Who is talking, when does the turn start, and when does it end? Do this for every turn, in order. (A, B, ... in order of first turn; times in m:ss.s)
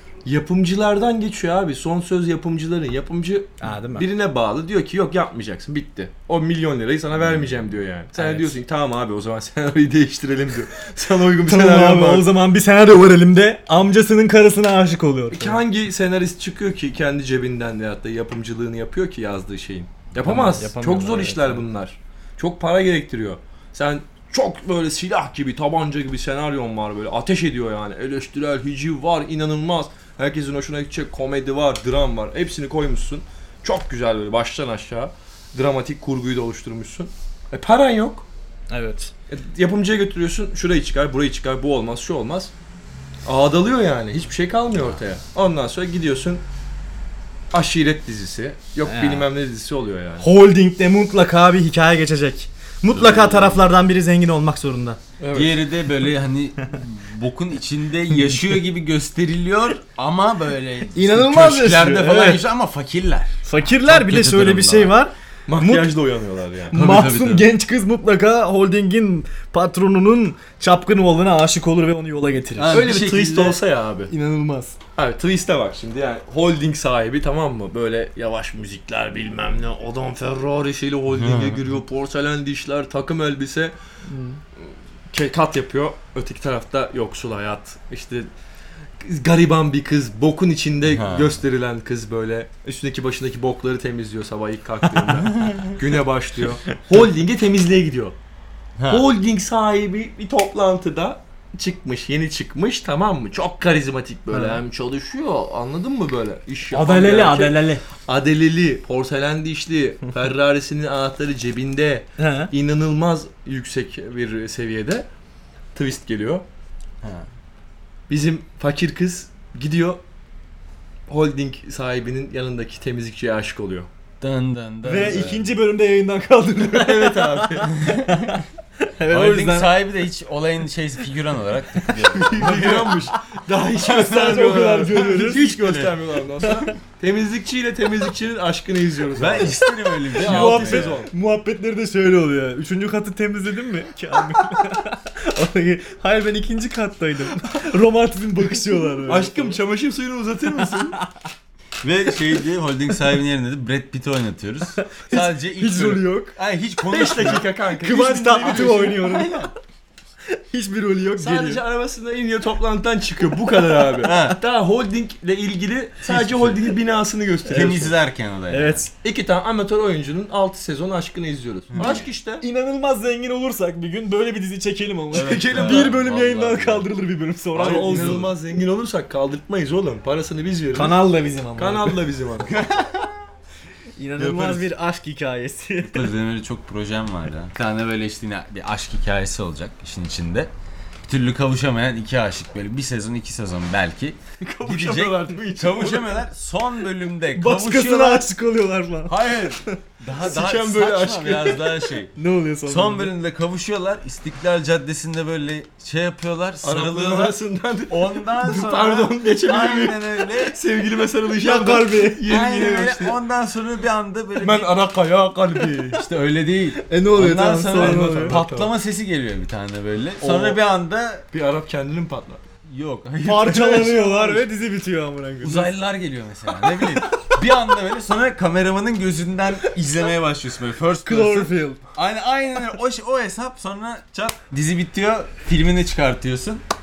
0:00.2-0:12.3 A
0:03.6-0:04.0 B
0:08.1-0:08.6 B
0:11.5-0:15.6 B
0:15.3-0:38.3 A
0:20.2-0:21.6 B
0:38.7-0:39.1 B
0:39.3-0:42.5 A
0:43.2-0:46.4 A
0:47.5-0:50.3 A
0:48.8-0:49.3 B
0:50.2-0:55.0 B
0:52.9-0:53.6 C
0:55.2-0:55.6 A
0:55.3-1:05.0 C
1:00.9-1:02.4 B
1:03.4-1:05.9 B
1:05.5-1:06.8 A
1:06.7-1:13.0 B
1:06.7-1:07.5 C
1:12.5-1:13.6 C
1:12.7-1:14.1 A
1:14.1-1:14.8 B
1:15.0-1:23.7 A
1:21.1-1:21.6 C
1:24.1-1:24.4 B
1:24.6-1:28.3 A
1:29.0-1:38.2 A
1:30.8-1:31.4 C
1:35.3-1:35.8 C
1:38.8-1:39.1 C
1:38.9-1:55.1 A
1:44.3-1:44.6 B
1:46.7-1:47.8 B
1:52.2-1:52.5 B
1:55.7-1:56.4 A
1:57.0-1:57.3 C
1:58.1-2:00.0 A
2:01.1-2:03.9 A
2:04.2-2:05.6 C
2:04.8-2:09.8 B
2:06.7-2:08.4 C
2:06.9-2:07.5 A
2:09.1-2:13.0 C
2:12.1-2:21.1 A
2:13.8-2:14.5 C
2:13.8-2:15.5 B
2:15.4-2:16.0 C
2:16.4-2:16.7 B
2:19.1-2:21.0 C
2:20.1-2:29.6 B
2:29.0-2:31.0 A
2:31.8-2:37.5 C
2:34.8-2:36.3 B
2:36.9-2:39.2 A
2:37.8-2:39.5 B
2:38.4-2:39.5 C
2:40.3-2:41.6 B
2:41.2-2:47.9 A
2:44.0-2:44.4 C
2:46.0-2:46.5 B
2:47.4-2:48.9 C
2:47.5-2:47.8 B
2:48.5-2:48.9 B
2:49.0-2:52.4 A
2:51.7-2:52.1 C
2:51.8-2:58.3 B
2:55.1-2:55.9 A
2:55.1-2:56.9 C
2:57.5-3:01.0 A
2:57.6-2:58.3 C
3:00.7-3:02.0 B
3:01.6-3:02.8 A
3:04.0-3:06.1 B
3:04.2-3:04.7 A
3:05.8-3:10.5 C
3:11.0-3:18.3 C
3:14.4-3:16.2 A
3:17.3-3:19.8 B
3:19.0-3:27.4 C
3:20.2-3:21.8 A
3:22.2-3:23.1 B
3:26.6-3:33.2 A
3:27.9-3:30.6 C
3:31.4-3:32.2 B
3:32.2-3:34.8 C
3:34.4-3:36.0 A
3:35.8-3:41.2 C
3:36.8-3:38.4 B
3:37.6-3:38.7 A
3:40.2-3:40.6 A
3:41.3-3:42.4 A
3:42.6-3:44.3 C
3:43.2-3:45.7 B
3:43.8-3:44.4 A
3:45.4-3:56.6 C
3:46.7-3:47.2 B
3:51.0-3:51.8 B